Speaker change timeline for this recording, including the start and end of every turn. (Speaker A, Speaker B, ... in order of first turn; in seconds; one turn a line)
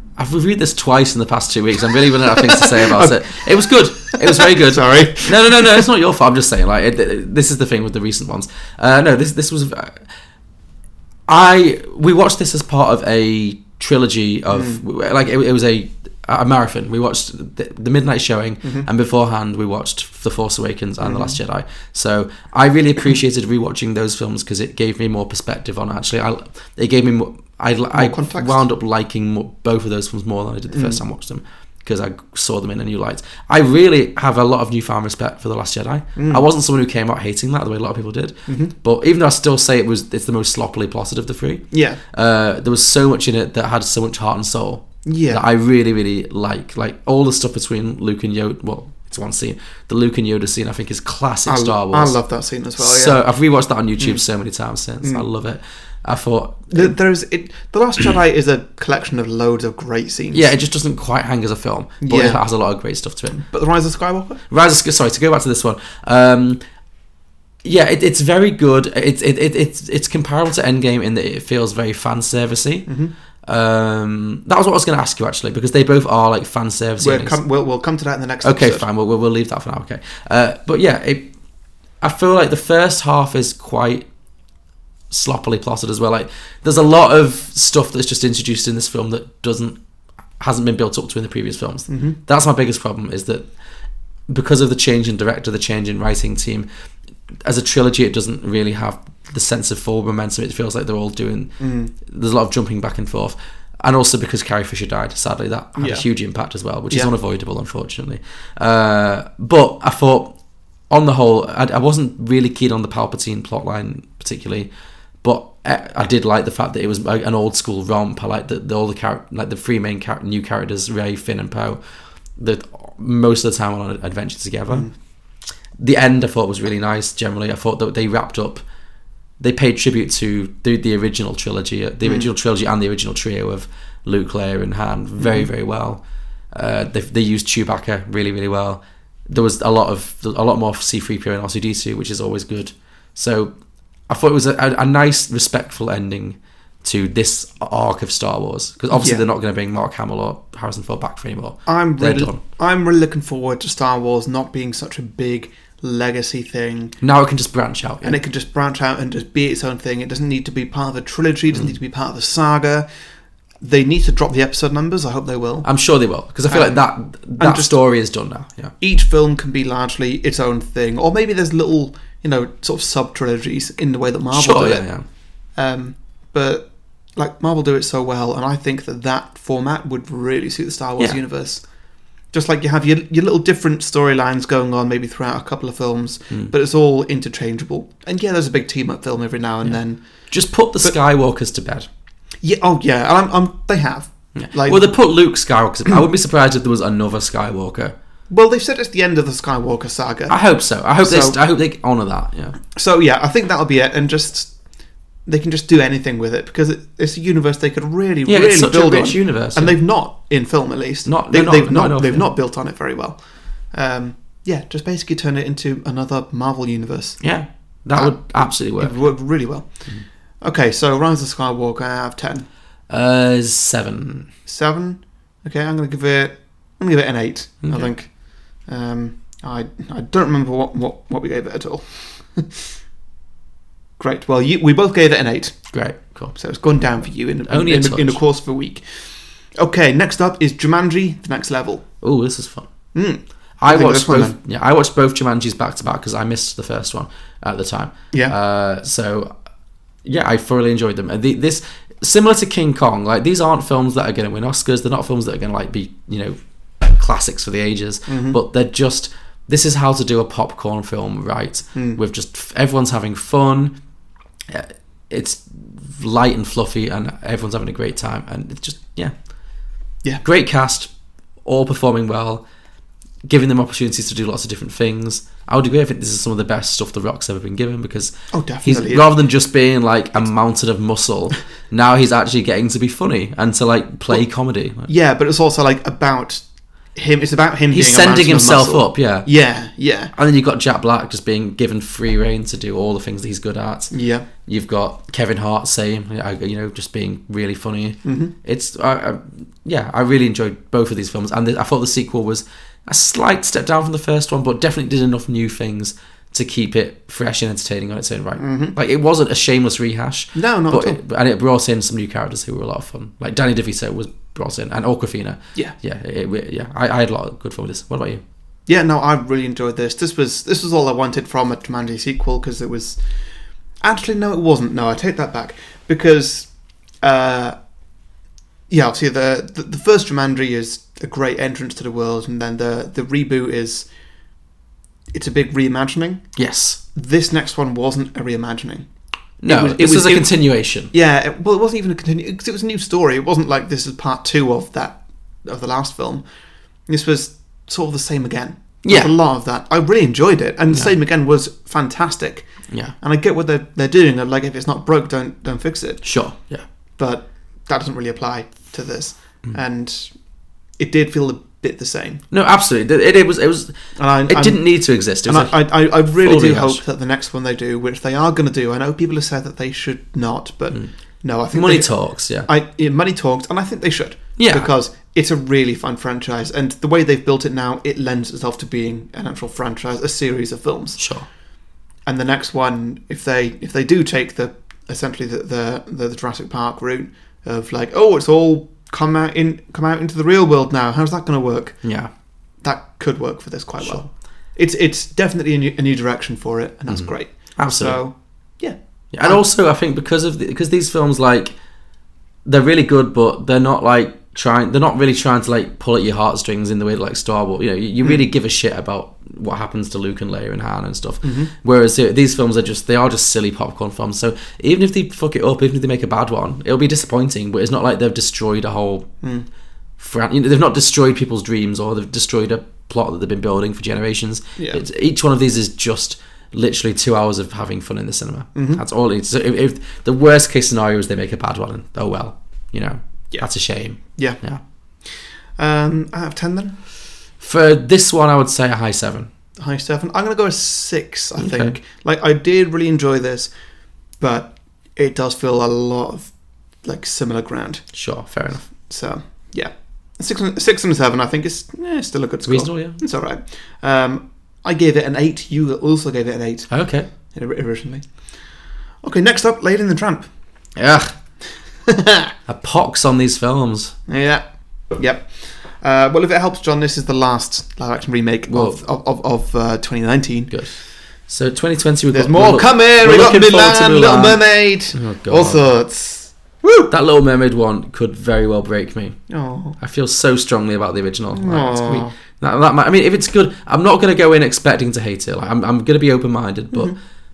Speaker A: 0.2-10.0
Speaker B: 2.2-5.8
Speaker A: 11.3-52.2
Speaker B: 14.5-14.8
Speaker B: 21.0-21.4
Speaker B: 27.9-28.6
Speaker B: 30.7-31.0
Speaker B: 36.1-36.4
Speaker B: 38.5-38.7
Speaker B: 41.7-42.0
Speaker B: 45.0-45.4
Speaker B: 51.5-53.2
Speaker A: 52.8-56.9
Speaker B: 56.7-60.5
Speaker A: 60.3-63.4
Speaker B: 62.0-62.4
Speaker B: 63.3-64.4
Speaker A: 64.5-66.6
Speaker A: 67.6-72.9
Speaker B: 72.9-73.1
Speaker A: 73.4-77.4
Speaker B: 77.0-78.8
Speaker A: 78.4-81.3
Speaker A: 82.0-84.1
Speaker A: 85.1-89.8
Speaker A: 90.4-93.5
Speaker B: 91.9-92.2
Speaker A: 94.3-96.7
Speaker A: 97.4-110.3
Speaker B: 101.6-101.9
Speaker B: 105.8-106.0
Speaker A: 110.9-114.7
Speaker A: 115.2-121.8
Speaker A: 122.4-124.9
Speaker A: 125.8-128.6
Speaker A: 129.4-136.0
Speaker B: 135.2-135.5
Speaker A: 136.5-143.5
Speaker A: 144.1-152.4
Speaker B: 148.9-149.2
Speaker B: 151.7-157.0
Speaker A: 157.0-158.2
Speaker B: 158.0-162.9
Speaker B: 163.6-165.7
Speaker A: 165.6-168.7
Speaker B: 166.5-166.8
Speaker B: 167.4-167.8
Speaker B: 168.8-174.8
Speaker A: 174.3-175.0
Speaker B: 175.5-181.6
Speaker B: 182.3-190.0
Speaker A: 190.3-191.9
Speaker B: 192.4-194.8
Speaker A: 194.3-197.9
Speaker B: 198.3-200.3
Speaker A: 200.3-202.6
Speaker B: 201.0-201.4
Speaker B: 202.7-204.5
Speaker B: 205.2-217.2
Speaker A: 208.3-209.8
Speaker A: 211.1-212.3
Speaker A: 217.2-219.1
Speaker B: 217.9-219.9
Speaker B: 220.4-222.4
Speaker A: 222.9-224.3
Speaker B: 224.4-232.6
Speaker A: 227.6-227.9
Speaker B: 234.0-235.6
Speaker A: 235.7-236.3
Speaker B: 236.3-241.8
Speaker A: 237.5-238.2
Speaker A: 242.0-242.7
Speaker B: 242.9-244.3
Speaker A: 243.6-249.3
Speaker A: 250.0-263.8
Speaker B: 258.1-258.4
Speaker B: 261.7-262.0
Speaker A: 264.5-269.1
Speaker A: 270.2-270.9
Speaker A: 271.4-272.4
Speaker A: 273.3-284.9
Speaker B: 278.3-279.1
Speaker B: 284.9-290.1
Speaker A: 287.7-289.3
Speaker A: 290.1-318.2
Speaker B: 293.9-294.2
Speaker B: 298.0-298.3
Speaker B: 308.4-308.8
Speaker B: 310.3-311.0
Speaker B: 318.7-323.0
Speaker B: 323.8-326.5
Speaker B: 327.0-327.6
Speaker B: 328.7-333.9
Speaker B: 335.1-336.2
Speaker A: 336.4-336.8
Speaker B: 336.9-338.9
Speaker A: 339.4-340.9
Speaker B: 339.4-340.3
Speaker B: 340.9-346.2
Speaker B: 346.9-352.5
Speaker A: 348.8-349.1
Speaker A: 352.7-352.9
Speaker B: 353.0-356.1
Speaker A: 356.0-356.6
Speaker B: 357.0-360.1
Speaker B: 360.8-362.2
Speaker A: 362.3-363.7
Speaker B: 363.9-364.7
Speaker A: 364.3-366.8
Speaker B: 365.2-381.0
Speaker A: 371.5-372.5
Speaker A: 374.4-374.7
Speaker A: 381.0-381.3
Speaker B: 382.1-391.8
Speaker A: 391.8-392.1
Speaker B: 392.6-399.4
Speaker A: 396.9-398.0
Speaker A: 399.1-401.6
Speaker A: 402.4-419.1
Speaker B: 411.2-411.5
Speaker A: 420.0-434.6
Speaker B: 424.6-424.8
Speaker B: 428.5-428.8
Speaker B: 434.0-434.4
Speaker B: 435.6-436.8
Speaker A: 437.4-439.3
Speaker B: 439.6-443.5
Speaker A: 441.4-441.7
Speaker B: 444.2-447.8
Speaker A: 447.9-448.7
Speaker B: 448.9-458.3
Speaker A: 452.4-453.0
Speaker A: 456.7-457.1
Speaker B: 459.0-460.3
Speaker A: 460.8-461.1
Speaker B: 461.9-462.3
Speaker A: 462.5-463.9
Speaker B: 464.1-470.5
Speaker A: 468.5-468.8
Speaker A: 470.5-470.8
Speaker A: 471.3-475.6
Speaker B: 472.1-476.9
Speaker A: 476.9-479.2
Speaker B: 479.3-479.8
Speaker A: 479.8-486.9
Speaker B: 481.3-482.1